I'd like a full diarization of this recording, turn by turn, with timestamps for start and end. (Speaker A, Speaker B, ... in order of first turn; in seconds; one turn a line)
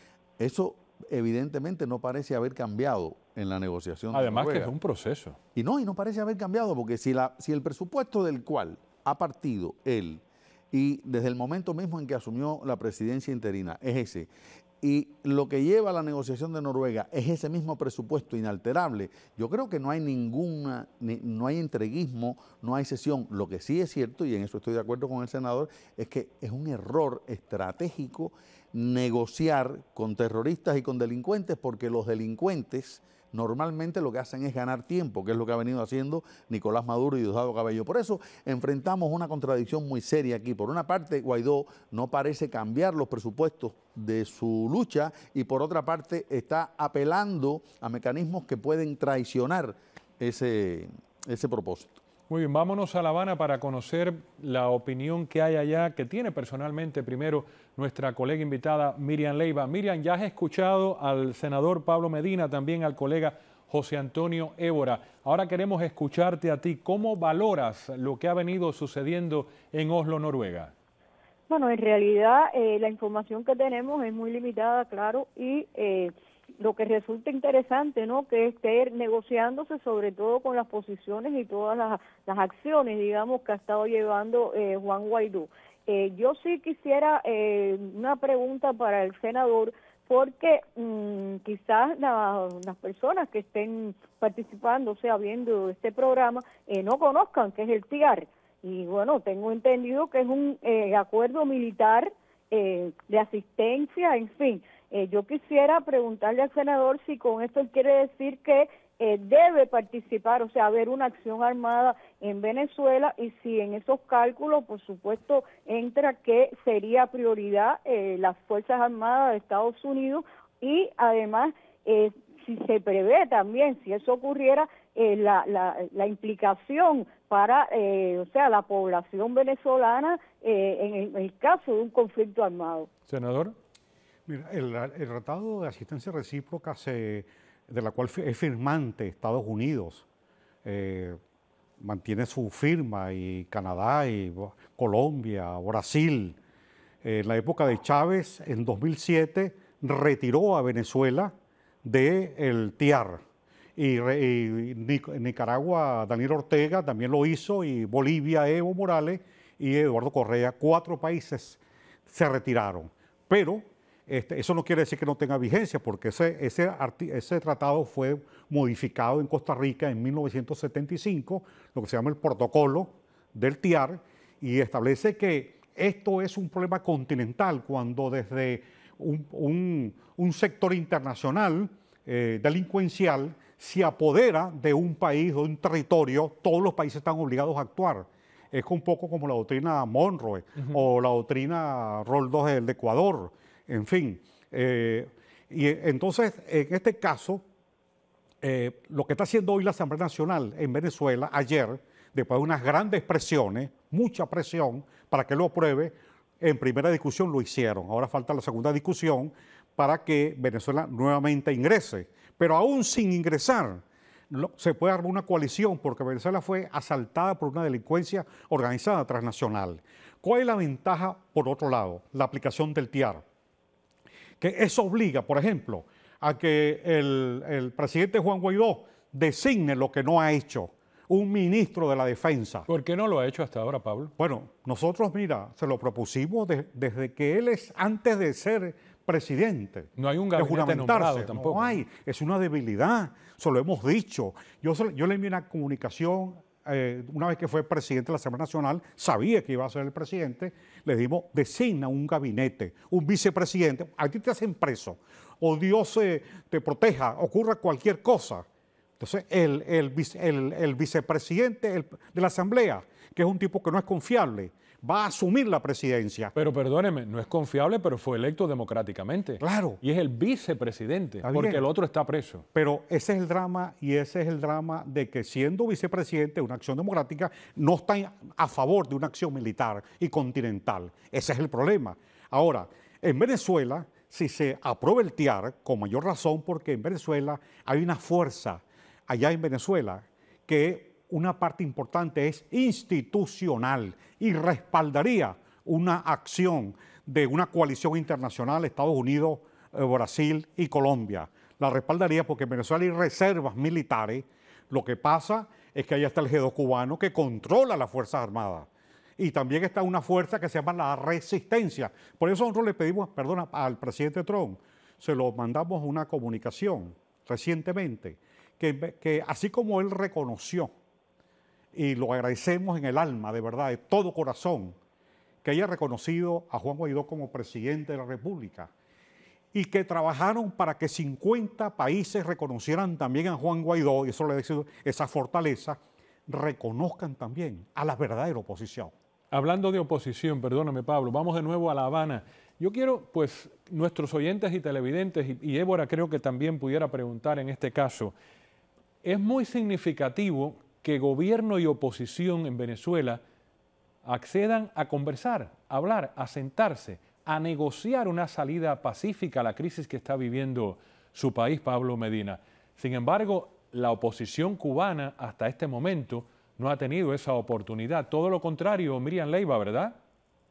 Speaker A: 0.4-4.7
Speaker B: 4.1-5.4
Speaker A: 5.5-14.3
Speaker A: 14.8-52.0
Speaker B: 52.3-70.7
Speaker C: 71.5-132.9
Speaker B: 133.1-133.5
Speaker D: 134.3-140.0
Speaker D: 140.6-141.2
Speaker D: 141.8-146.4
Speaker D: 147.0-153.2
Speaker D: 153.8-197.4
Speaker D: 198.4-223.2
Speaker D: 224.4-232.7
Speaker B: 232.7-234.1
Speaker D: 234.2-258.4
Speaker B: 240.0-241.8
Speaker D: 259.0-266.3
Speaker B: 266.3-272.4
Speaker D: 269.4-269.8
Speaker D: 271.2-271.6
Speaker D: 272.5-320.7
Speaker D: 321.7-324.8
Speaker D: 325.4-328.7
Speaker D: 329.5-338.9
Speaker B: 339.3-348.1
Speaker B: 349.0-353.2
Speaker B: 354.0-369.9